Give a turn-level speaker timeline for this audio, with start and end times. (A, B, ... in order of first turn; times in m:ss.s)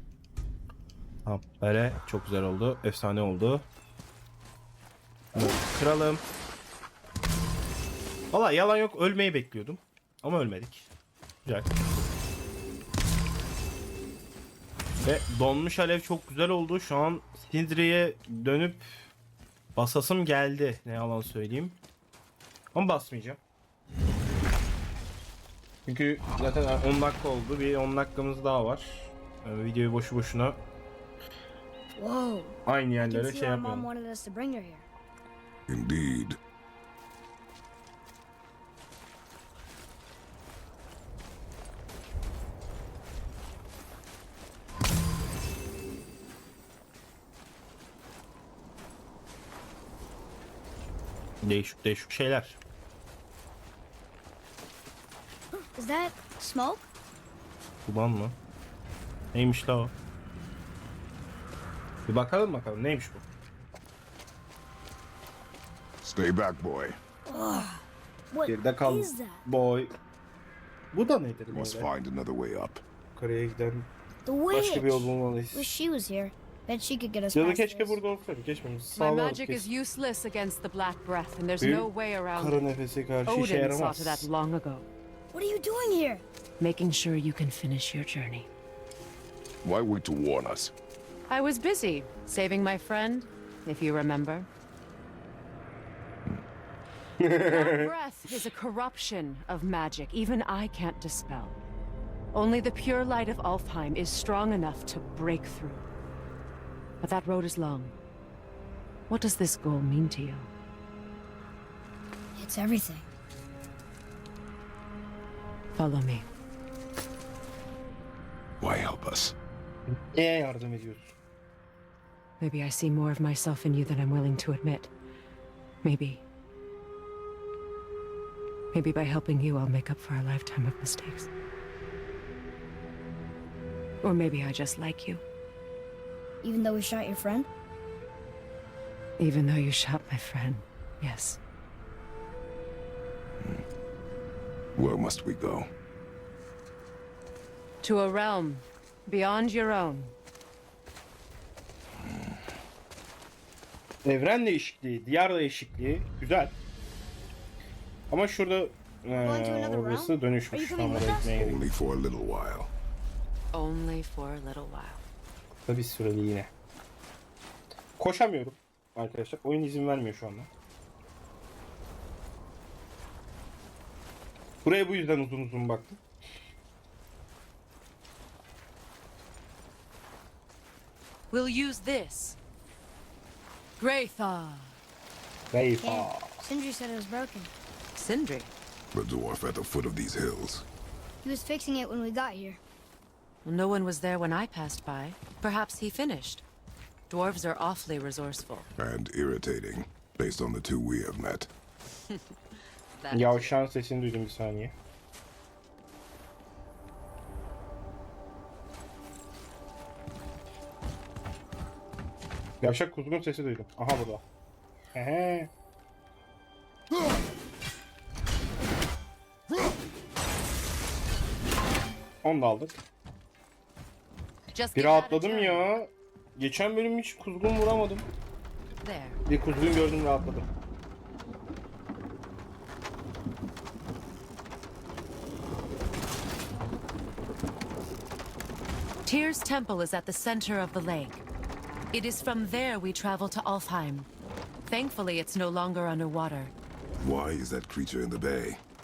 0:01.2-0:03.7 A
0:05.3-0:06.2 A
0:08.3-0:10.9 A
0:11.4-0:11.7 A
0:15.0-0:18.9 A
0:19.8-0:21.8 A
0:22.7-0:23.4 A
0:25.8-0:30.6 A
0:32.0-0:34.9 B
0:32.6-0:33.9 A
0:35.7-0:36.4 C
0:51.4-0:52.6 A
0:55.7-0:56.9 B
0:57.8-0:58.4 A
0:59.3-0:59.9 A
1:02.1-1:03.2 A
1:06.0-1:07.0 C
1:07.2-1:09.4 B
1:08.4-1:09.9 A
1:10.9-1:11.9 A
1:11.5-1:12.8 C
1:13.1-1:13.9 A
1:14.2-1:18.0 B
1:14.5-1:15.7 A
1:17.3-1:19.6 A
1:18.9-1:22.6 D
1:21.6-1:24.3 A
1:23.2-1:24.9 D
1:25.3-1:26.2 B
1:26.6-1:28.5 D
1:29.6-1:30.7 C
1:31.3-1:34.5 D
1:37.2-1:37.9 A
1:37.4-1:41.6 D
1:42.3-1:45.8 D
1:47.0-1:47.9 D
1:49.1-1:50.5 D
1:52.4-1:53.1 B
1:55.7-1:56.3 D
1:58.6-1:59.3 C
1:59.9-2:01.1 A
2:02.4-2:04.9 D
2:05.8-2:06.2 D
2:08.7-2:11.3 D
2:14.0-2:15.2 D
2:16.4-2:17.5 B
2:19.2-2:21.4 D
2:24.8-2:25.7 C
2:27.8-2:30.1 D
2:32.0-2:32.4 C
2:34.0-2:36.6 A
2:38.1-2:41.6 A
2:39.2-2:41.3 B
2:41.3-2:42.7 C
2:43.5-2:45.0 D
2:45.6-2:46.5 A
2:48.0-2:50.5 A
2:54.6-2:56.0 A
3:01.3-3:02.4 D
3:03.8-3:04.8 D
3:05.5-3:06.4 A
3:05.8-3:07.5 B
3:07.9-3:08.5 D
3:08.9-3:10.6 C
3:11.2-3:12.6 B
3:13.4-3:16.4 D
3:17.1-3:18.7 D
3:18.8-3:21.5 C
3:22.1-3:22.4 D
3:23.0-3:23.6 D
3:23.1-3:24.7 A
3:32.6-3:34.2 A
3:34.9-3:35.5 A
3:42.2-3:42.8 A
3:44.5-3:45.7 D
3:44.7-3:48.1 A
3:48.8-3:49.2 D
3:49.3-3:50.5 A
3:59.0-4:01.2 D
4:01.9-4:04.1 D
4:04.6-4:06.5 D
4:07.0-4:08.6 C